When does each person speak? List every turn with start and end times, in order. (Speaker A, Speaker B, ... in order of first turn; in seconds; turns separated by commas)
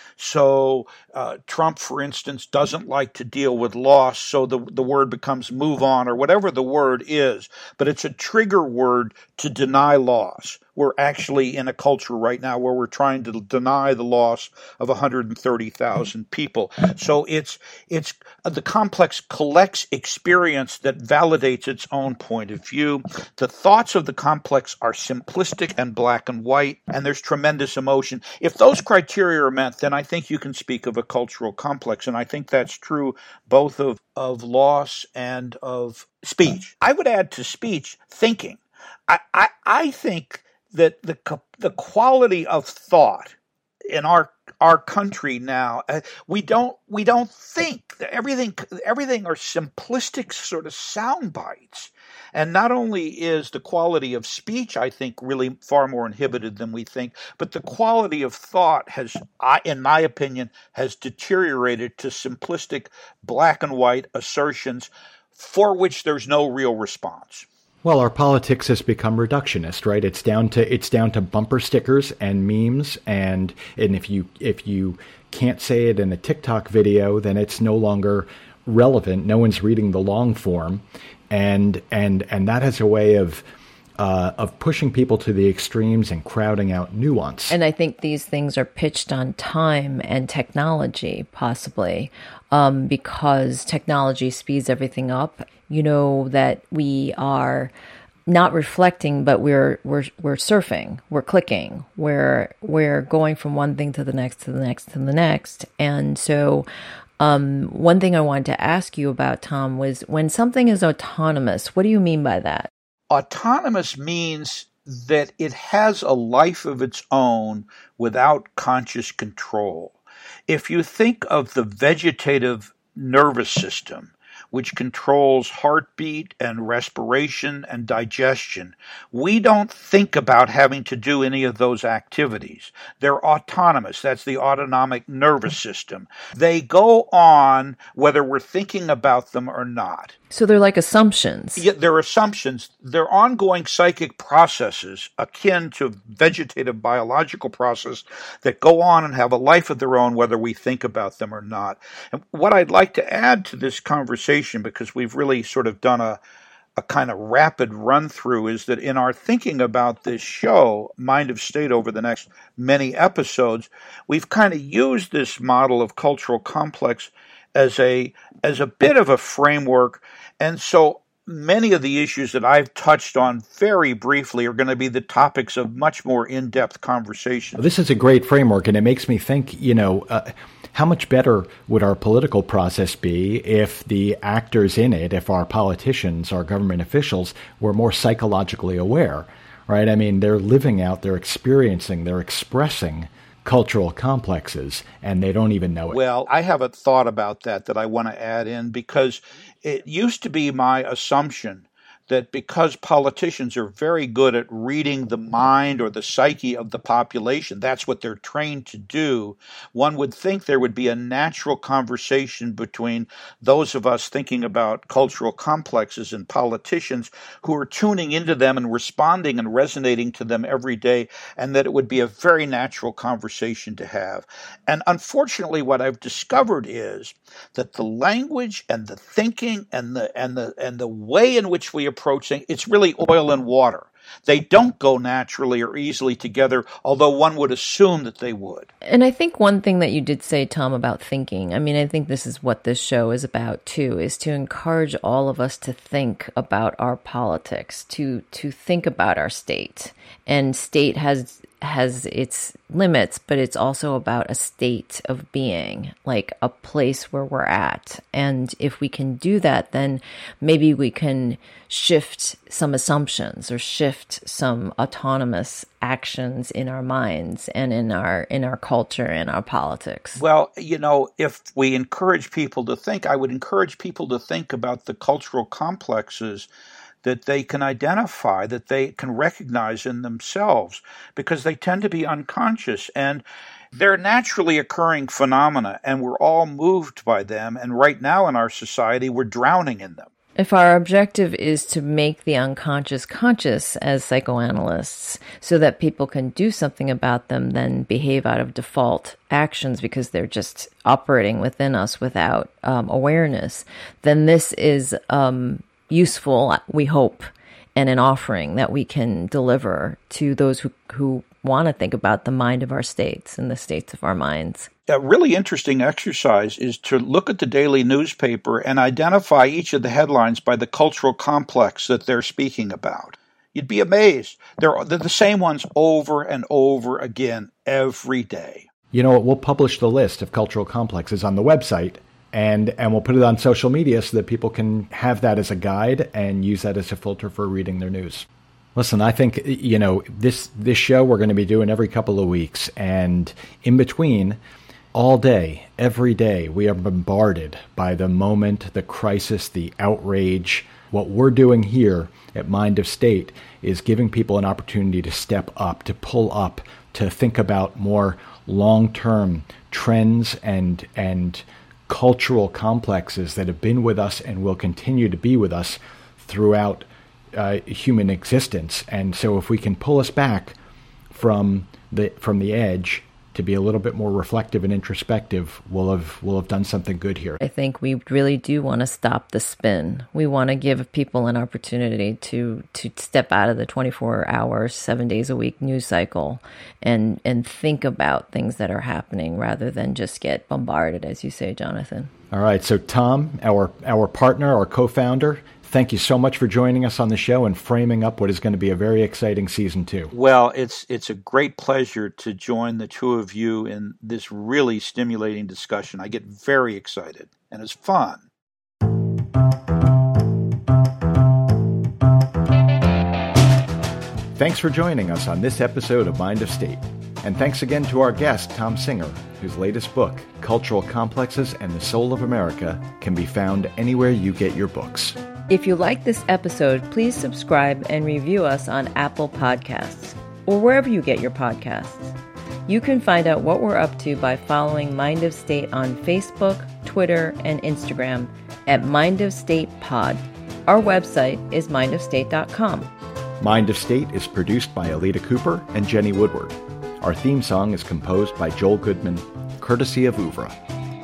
Speaker A: 0.2-43.3, Speaker A: 43.9-67.5, Speaker B: 67.8-83.4, Speaker B: 84.0-87.5, Speaker C: 87.5-97.7, Speaker C: 98.3-106.7, Speaker C: 107.2-112.7, Speaker A: 113.1-140.1, Speaker C: 140.3-141.6, Speaker A: 141.6-156.2, Speaker A: 156.8-177.6, Speaker B: 177.6-196.0, Speaker A: 195.9-238.7, Speaker C: 238.8-270.2, Speaker A: 270.2-276.5, Speaker A: 277.0-283.2, Speaker A: 283.7-290.1, Speaker C: 290.4-314.7, Speaker A: 314.9-328.7, Speaker B: 328.9-344.4, Speaker B: 344.9-370.5, Speaker B: 371.1-377.4, Speaker C: 377.4-392.1, Speaker B: 392.3-400.1, Speaker A: 400.1-408.2, Speaker B: 414.4-425.2, Speaker C: 425.5-432.1, Speaker C: 432.7-442.9, Speaker B: 443.4-450.6